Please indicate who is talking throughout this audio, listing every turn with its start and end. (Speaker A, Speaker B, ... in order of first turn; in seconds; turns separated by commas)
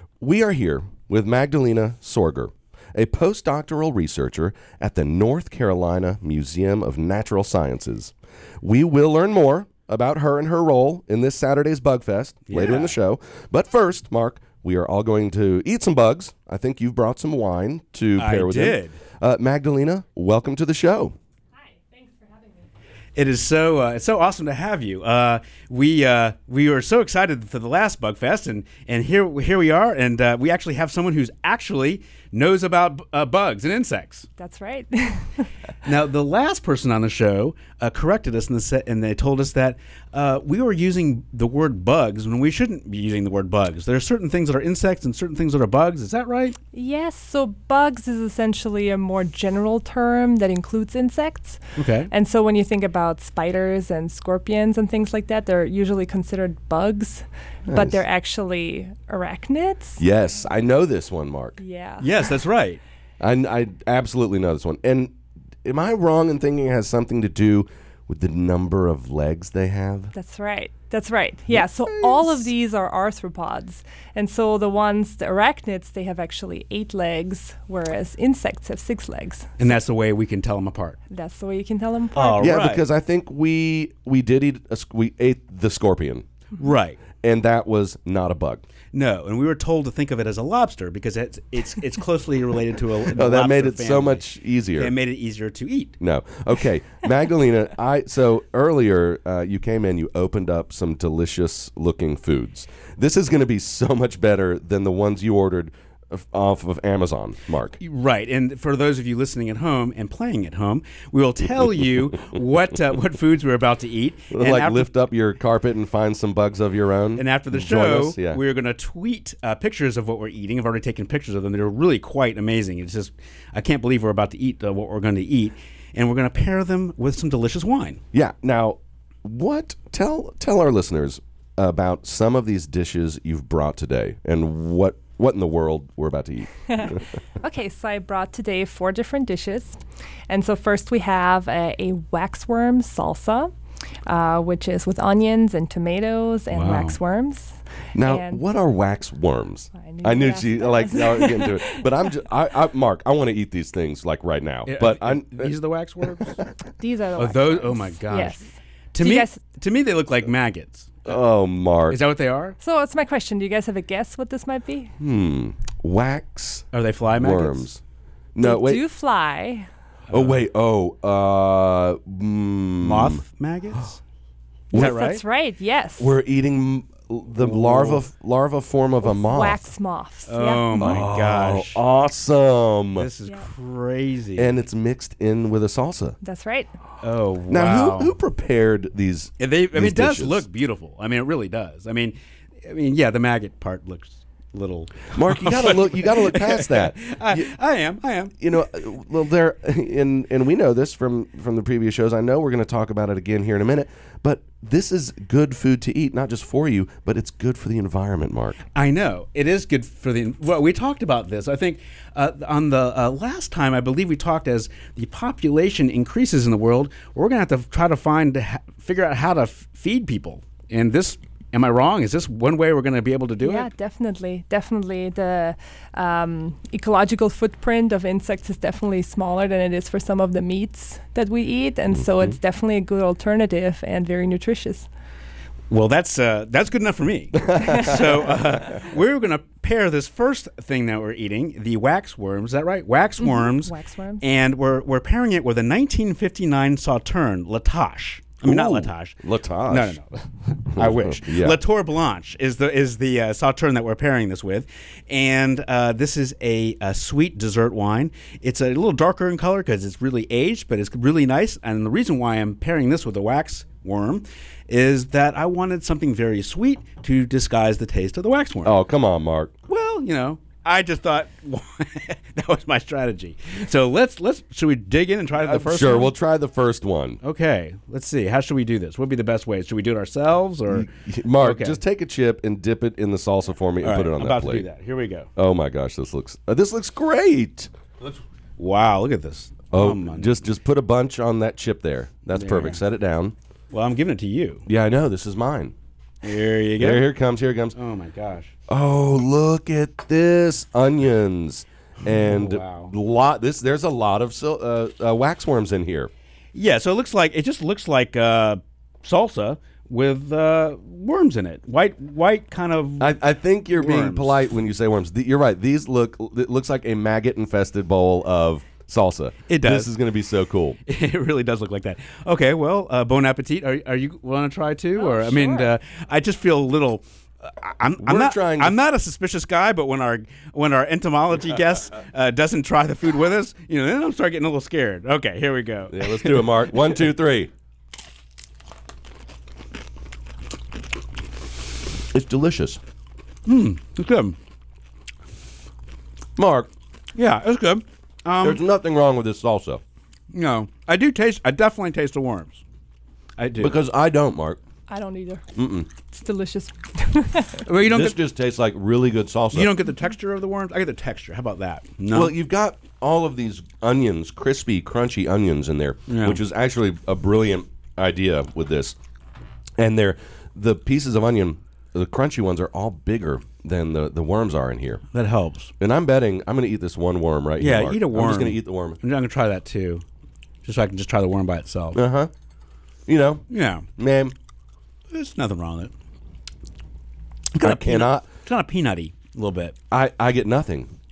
Speaker A: 0.2-21.1, Speaker B: 12.5-12.9, Speaker B: 18.2-19.0, Speaker C: 21.7-22.7, Speaker B: 23.2-34.3, Speaker C: 34.4-35.5, Speaker B: 35.8-46.6, Speaker C: 46.7-60.0, Speaker B: 51.8-52.1, Speaker A: 57.7-58.0, Speaker A: 60.0-61.6, Speaker C: 61.6-62.3, Speaker B: 62.0-62.8, Speaker A: 63.2-65.1, Speaker A: 65.7-70.1, Speaker C: 70.1-79.5, Speaker A: 71.5-72.5, Speaker B: 79.6-81.0, Speaker C: 81.1-82.6, Speaker B: 82.1-82.8, Speaker A: 82.4-86.2, Speaker B: 86.6-87.0, Speaker A: 87.2-88.6, Speaker B: 88.9-94.2, Speaker A: 93.1-94.9, Speaker B: 94.8-96.0, Speaker A: 96.0-107.8, Speaker B: 107.8-114.9, Speaker A: 114.3-118.4, Speaker B: 117.2-128.0, Speaker A: 128.1-137.0, Speaker C: 136.7-143.5, Speaker C: 144.1-148.4, Speaker B: 146.5-147.0, Speaker A: 147.9-155.5, Speaker C: 149.7-151.9, Speaker B: 154.7-156.4, Speaker C: 156.8-159.4, Speaker B: 157.2-158.4, Speaker B: 158.9-161.1, Speaker A: 161.1-162.0, Speaker B: 161.9-162.6, Speaker C: 162.6-164.9, Speaker A: 165.0-167.8, Speaker B: 166.7-167.7, Speaker A: 168.3-168.8, Speaker C: 168.4-169.7, Speaker B: 170.1-170.4, Speaker A: 170.1-173.2, Speaker B: 172.8-174.0, Speaker C: 174.7-176.1, Speaker B: 174.7-175.2, Speaker A: 176.0-179.6, Speaker B: 177.4-178.0, Speaker C: 179.0-180.9, Speaker B: 180.3-181.8, Speaker A: 180.8-183.1, Speaker B: 183.0-184.6, Speaker A: 184.4-186.2, Speaker C: 186.2-186.7, Speaker B: 187.0-188.2, Speaker A: 187.5-190.4, Speaker B: 189.4-198.3, Speaker A: 195.1-197.5, Speaker A: 198.4-208.6, Speaker B: 208.8-223.7, Speaker C: 223.4-234.9, Speaker A: 231.9-232.3, Speaker B: 235.7-249.2, Speaker A: 237.4-238.0, Speaker C: 243.2-244.3, Speaker A: 248.4-250.0, Speaker B: 249.7-268.8, Speaker A: 250.7-251.6, Speaker A: 268.6-269.5, Speaker B: 269.7-276.1, Speaker A: 275.4-277.2, Speaker B: 277.2-280.9, Speaker A: 280.7-284.7, Speaker B: 281.4-281.8, Speaker B: 283.8-285.3, Speaker A: 285.4-287.7, Speaker B: 288.6-290.4, Speaker A: 289.7-293.4, Speaker B: 292.3-292.8, Speaker B: 293.7-294.6, Speaker A: 294.7-295.7, Speaker B: 296.2-297.1, Speaker A: 296.8-297.8, Speaker B: 297.7-298.5, Speaker A: 298.7-306.1, Speaker B: 302.2-302.9, Speaker B: 306.6-313.2, Speaker A: 313.0-320.8, Speaker B: 313.8-314.4, Speaker B: 319.5-319.9, Speaker B: 320.9-336.7, Speaker C: 325.0-325.8, Speaker A: 328.0-328.8, Speaker A: 335.9-337.5, Speaker A: 342.1-342.8, Speaker B: 343.5-344.4, Speaker A: 346.4-346.7, Speaker B: 347.2-348.6, Speaker A: 348.4-349.8, Speaker B: 350.3-352.6, Speaker B: 353.4-353.8, Speaker A: 353.6-354.6, Speaker C: 354.9-357.6, Speaker A: 355.6-355.9, Speaker B: 357.6-358.2, Speaker A: 357.8-359.7, Speaker B: 359.5-362.3, Speaker A: 362.1-369.0, Speaker B: 366.1-366.4, Speaker A: 369.8-375.0, Speaker B: 375.1-375.7, Speaker A: 375.8-379.0, Speaker B: 377.6-380.0, Speaker B: 380.6-382.0, Speaker A: 381.9-382.3, Speaker A: 383.1-383.4, Speaker B: 383.5-383.9, Speaker A: 384.0-384.4, Speaker B: 385.1-385.9, Speaker B: 387.5-389.8, Speaker A: 387.6-388.3, Speaker A: 389.9-390.9